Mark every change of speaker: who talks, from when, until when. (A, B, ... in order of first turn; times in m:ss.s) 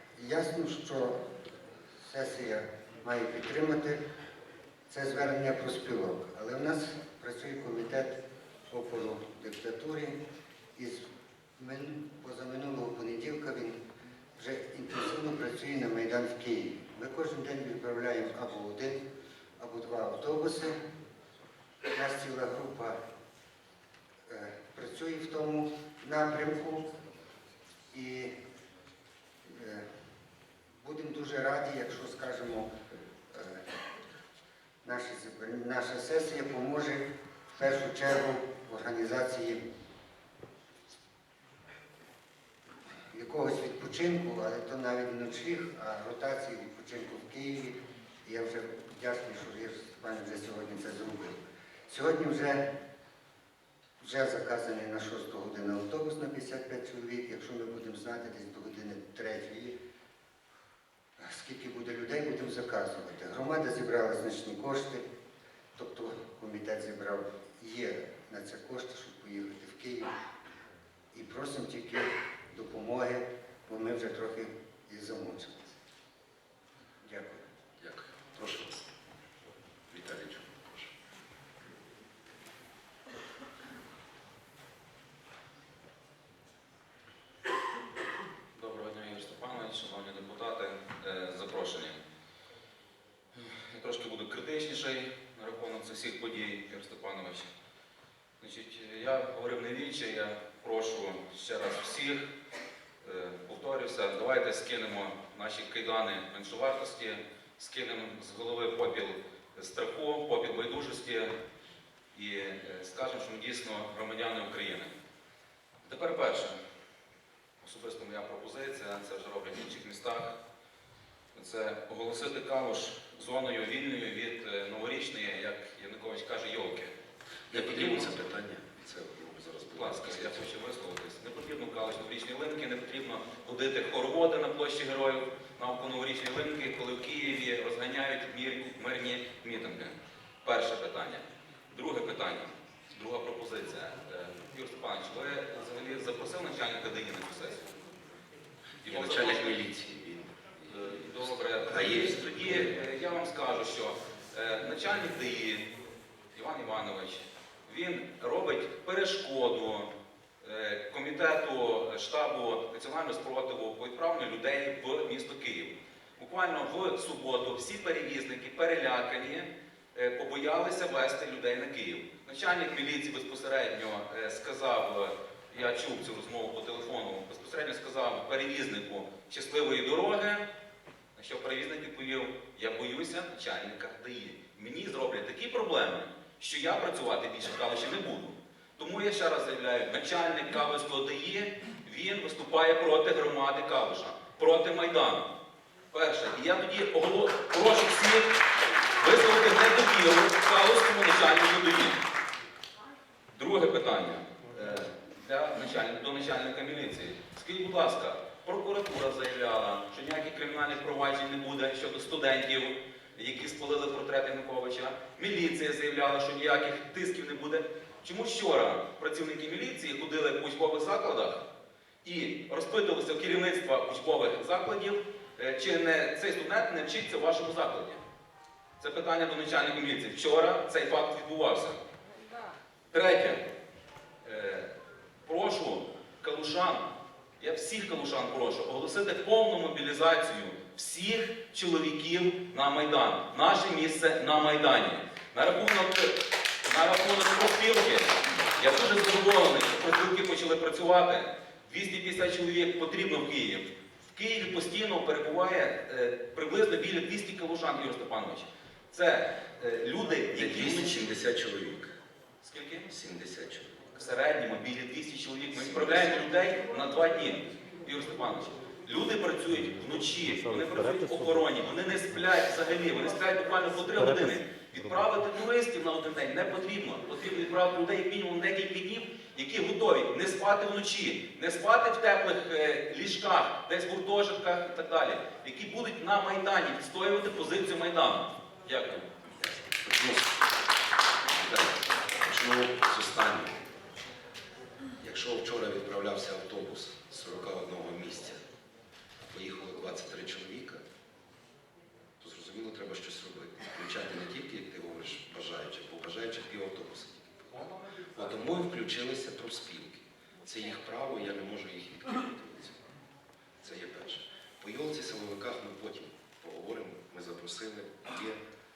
0:00.2-0:01.2 A
0:02.0-0:04.0 A
0:04.9-0:08.1 A
0:08.7-0:10.2 A
0:10.8-0:11.0 A
0:11.6-0:13.8 A
0:14.4-0:19.0 A
0:19.6-0:20.8 A
0:21.9-0:23.0 A
0:24.3-0:26.9 A
0:27.9-0:28.3 A
0:29.5-0:29.8 A
0:30.8-0:32.7 A
0:33.3-0:33.6 A
0:34.8-0:39.6 A
0:43.1-0:51.4 A
0:51.9-0:52.7 A
0:54.0-0:59.8 A
1:01.2-1:05.0 A
1:05.8-1:10.2 A
1:11.1-1:15.7 A
1:17.0-1:17.4 A
1:17.8-1:18.9 B
1:19.9-1:20.9 B
1:28.6-1:32.0 C
1:33.3-1:37.5 C
1:38.4-1:42.3 C
1:43.0-1:51.3 C
1:52.1-1:54.9 C
1:55.8-1:56.6 C
1:57.6-2:00.4 C
2:01.3-2:06.9 C
2:07.5-2:08.1 C
2:07.5-2:10.5 B
2:09.7-2:27.8 C
2:28.8-2:29.6 C
2:28.9-2:32.7 B
2:30.7-2:35.6 C
2:36.4-2:39.9 C
2:40.4-3:00.5 C
3:01.2-3:15.3 C
3:15.9-3:18.3 C
3:19.0-3:22.0 C
3:23.3-3:41.4 C
3:42.0-3:48.0 C
3:48.8-3:51.8 C
3:52.9-3:53.4 C
3:54.2-3:54.7 C
3:55.3-3:56.8 C
3:57.4-4:21.0 C
4:20.3-4:21.9 B
4:22.4-4:22.9 C
4:22.9-4:23.8 B
4:24.0-4:49.0 C
4:25.6-4:26.2 B
4:49.4-4:50.3 B
4:51.4-4:53.6 B
4:55.0-4:58.4 B
4:59.3-5:00.8 B
5:02.2-5:12.9 B
5:13.6-5:18.4 B